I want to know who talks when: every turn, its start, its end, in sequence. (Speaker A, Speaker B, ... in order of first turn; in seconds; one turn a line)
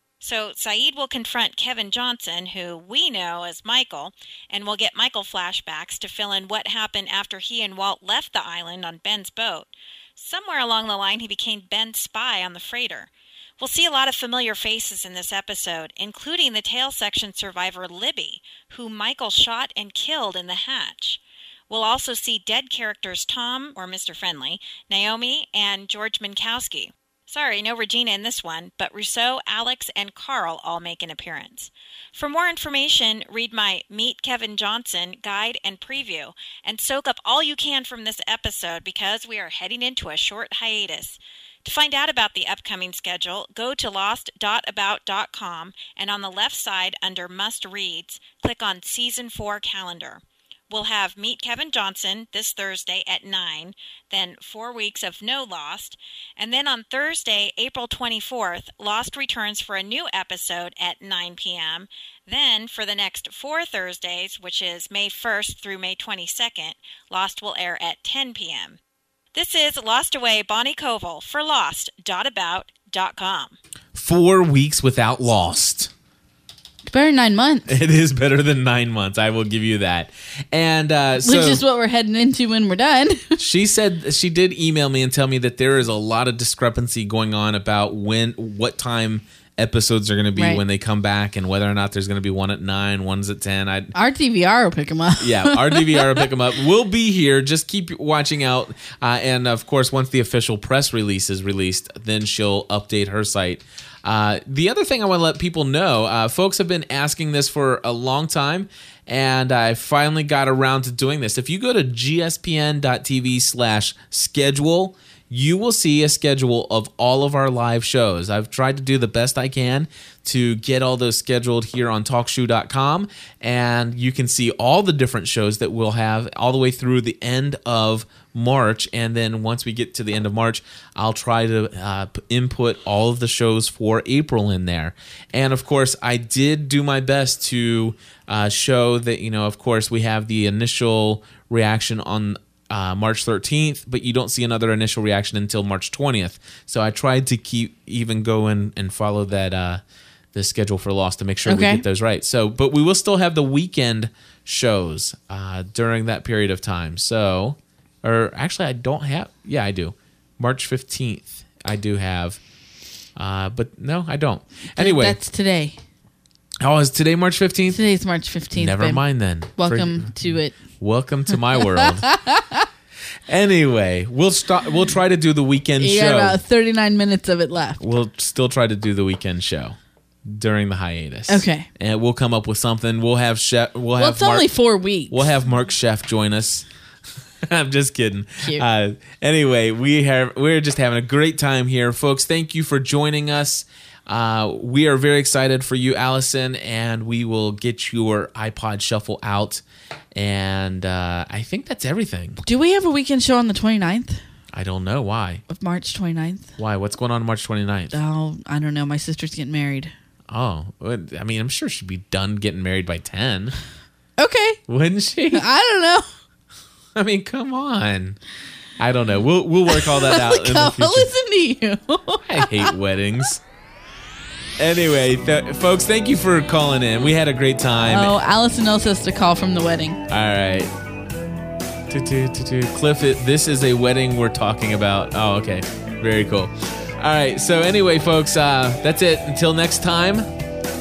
Speaker A: 0.2-68.8
Speaker A: 69.3-73.6
Speaker B: 74.0-75.9
Speaker C: 76.9-77.8
Speaker B: 77.7-81.6
Speaker C: 81.2-83.3
Speaker B: 83.4-93.9
Speaker C: 90.4-90.6
Speaker C: 93.9-96.2
Speaker B: 95.2-149.8
Speaker B: 150.3-162.4
Speaker C: 151.5-151.8
Speaker B: 163.2-165.2
Speaker C: 164.8-165.8
Speaker B: 166.6-167.8
Speaker C: 167.7-169.0
Speaker B: 168.5-172.1
Speaker C: 169.6-170.6
Speaker C: 172.0-172.7
Speaker B: 173.3-176.4
Speaker C: 175.8-177.8
Speaker B: 177.8-186.7
Speaker C: 181.3-181.7
Speaker C: 184.0-185.3
Speaker B: 187.5-199.6
Speaker B: 200.2-202.4
Speaker C: 202.4-204.2
Speaker B: 204.5-205.4
Speaker C: 205.5-206.6
Speaker B: 206.6-208.0
Speaker C: 207.9-209.9
Speaker B: 210.3-213.6
Speaker C: 214.2-214.6
Speaker B: 214.7-215.4
Speaker C: 215.3-216.1
Speaker B: 217.0-218.2
Speaker B: 218.8-221.1
Speaker C: 219.7-222.7
Speaker B: 222.3-223.4
Speaker B: 224.6-228.1
Speaker C: 227.9-230.0
Speaker B: 230.1-230.7
Speaker B: 231.9-240.3